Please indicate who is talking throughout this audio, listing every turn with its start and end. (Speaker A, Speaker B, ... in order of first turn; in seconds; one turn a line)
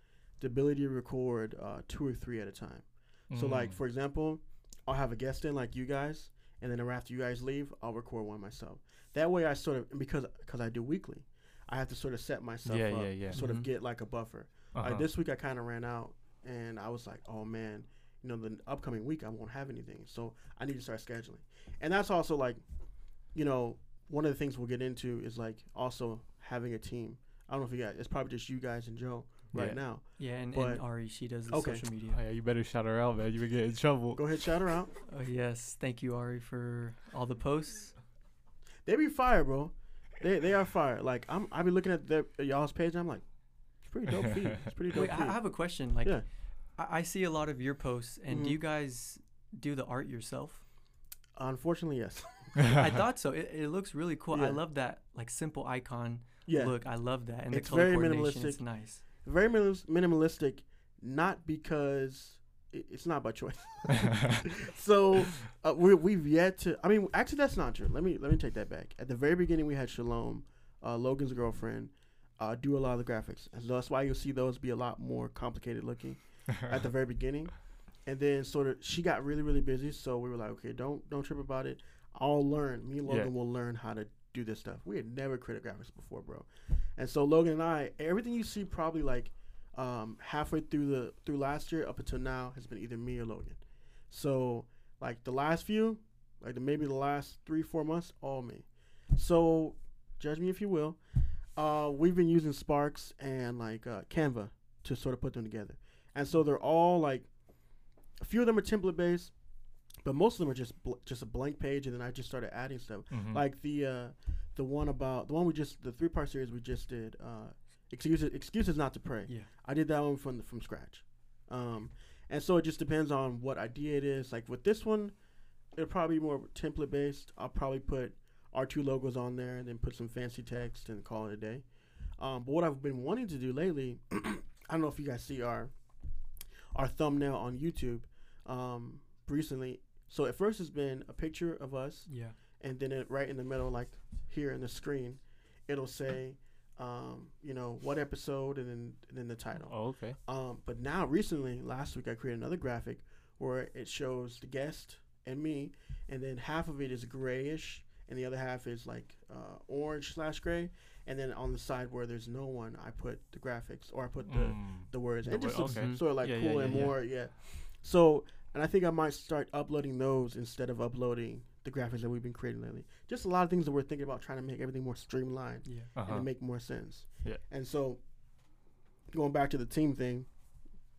Speaker A: 0.4-22.6
Speaker B: 3.3-3.8
Speaker B: 12.6-13.4
Speaker C: 13.3-13.7
Speaker B: 14.7-15.1
Speaker A: 23.2-31.9
Speaker B: 29.5-29.8
Speaker C: 30.2-32.2
Speaker B: 32.1-34.5
Speaker A: 34.1-34.9
Speaker C: 35.0-38.0
Speaker A: 38.9-46.2
Speaker C: 44.9-50.6
Speaker A: 48.3-48.6
Speaker A: 51.4-52.6
Speaker C: 52.7-59.0
Speaker A: 54.3-54.6
Speaker A: 56.5-101.0
Speaker B: 83.0-83.3
Speaker A: 101.5-107.3
Speaker A: 108.1-109.3
Speaker A: 110.0-125.2
Speaker B: 113.1-113.4
Speaker A: 125.7-135.7
Speaker A: 136.7-178.0
Speaker C: 142.1-142.4
Speaker B: 149.7-150.2
Speaker B: 164.2-167.0
Speaker C: 165.6-166.1
Speaker C: 175.6-175.9
Speaker B: 175.9-176.3
Speaker A: 179.1-180.3